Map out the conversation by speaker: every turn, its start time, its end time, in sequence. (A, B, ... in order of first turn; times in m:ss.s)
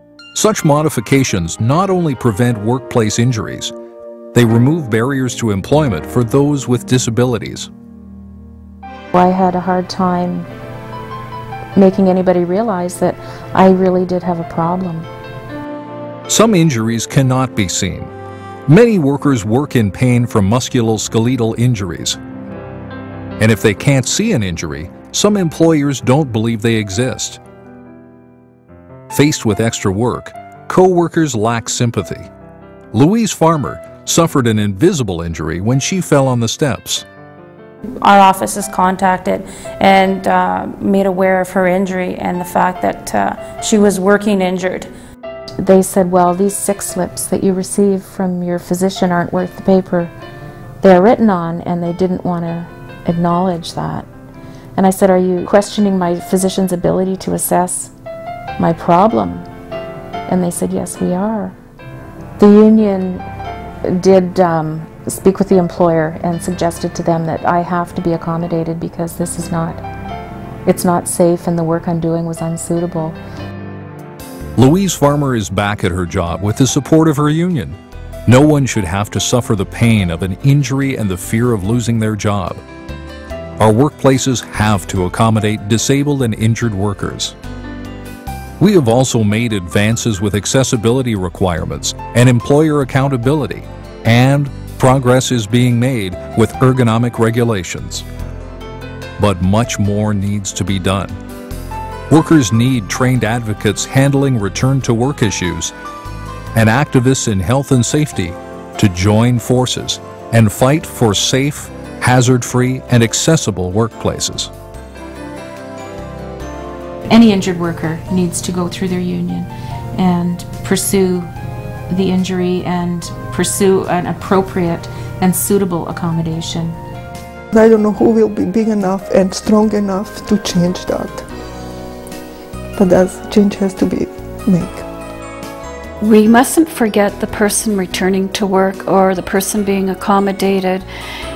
0:00.3-0:03.7 A
0:04.3-0:07.7 A
0:09.1-0:10.5 B
0:11.8-0:15.1 B
0:16.3-0:18.1 A
0:18.7-0:22.2 A
0:23.4-0:27.4 A
0:29.1-0:32.3 A
0:32.9-0:37.0 A
0:38.0-0:44.9 C
0:45.6-0:50.1 B
0:50.8-0:54.1 B
0:54.8-0:57.9 B
0:58.6-0:59.5 B
1:00.3-1:01.6 B
1:02.4-1:03.2 B
1:03.8-1:09.8 B
1:10.6-1:13.2 B
1:14.6-1:22.6 A
1:23.6-1:27.3 A
1:28.6-1:38.0 A
1:39.2-1:41.2 A
1:42.1-1:45.7 A
1:46.5-1:54.5 A
1:57.1-2:01.3 B
2:01.9-2:06.8 B
2:07.5-2:11.2 D
2:12.8-2:14.8 D
2:16.0-2:20.9 E